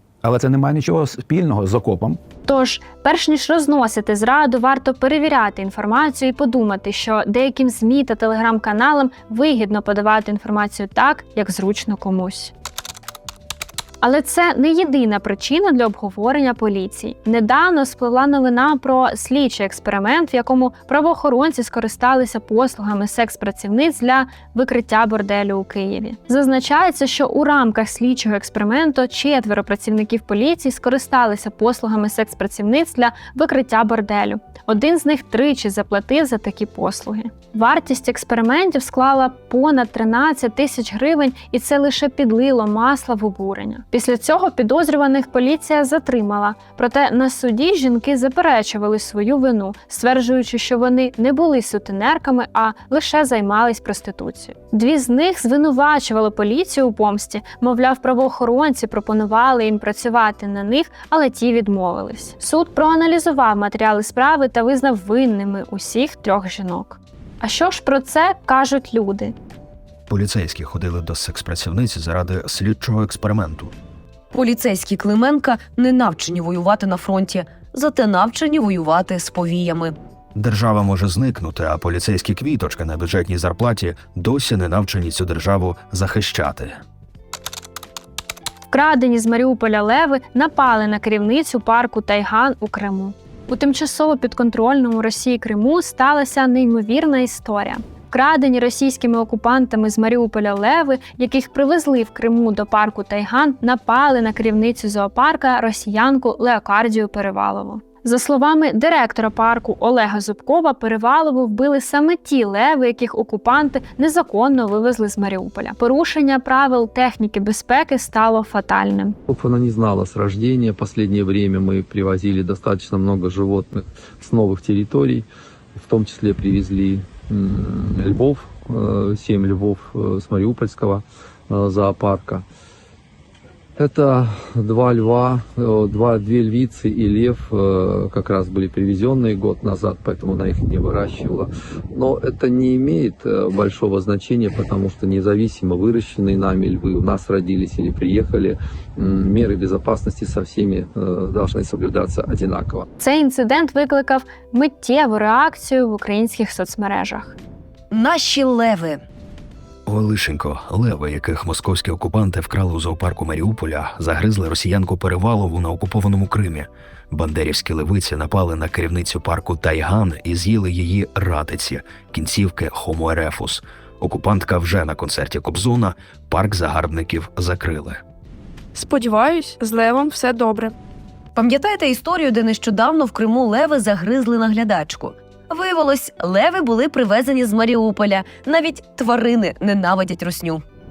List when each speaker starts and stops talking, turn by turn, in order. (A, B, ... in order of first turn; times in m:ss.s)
0:00.2-0:02.2 A
0:02.5-0:12.5 B
0:14.0-1:09.3 B
1:10.1-1:13.7 C
1:14.3-1:19.9 D
1:20.3-1:26.8 C
1:28.7-1:59.2 B
1:59.3-2:12.4 E
2:13.8-2:32.9 E
2:33.0-2:37.4 B
2:37.9-2:39.0 D
2:39.9-2:58.0 C
2:58.7-3:00.7 F
3:01.3-3:10.6 D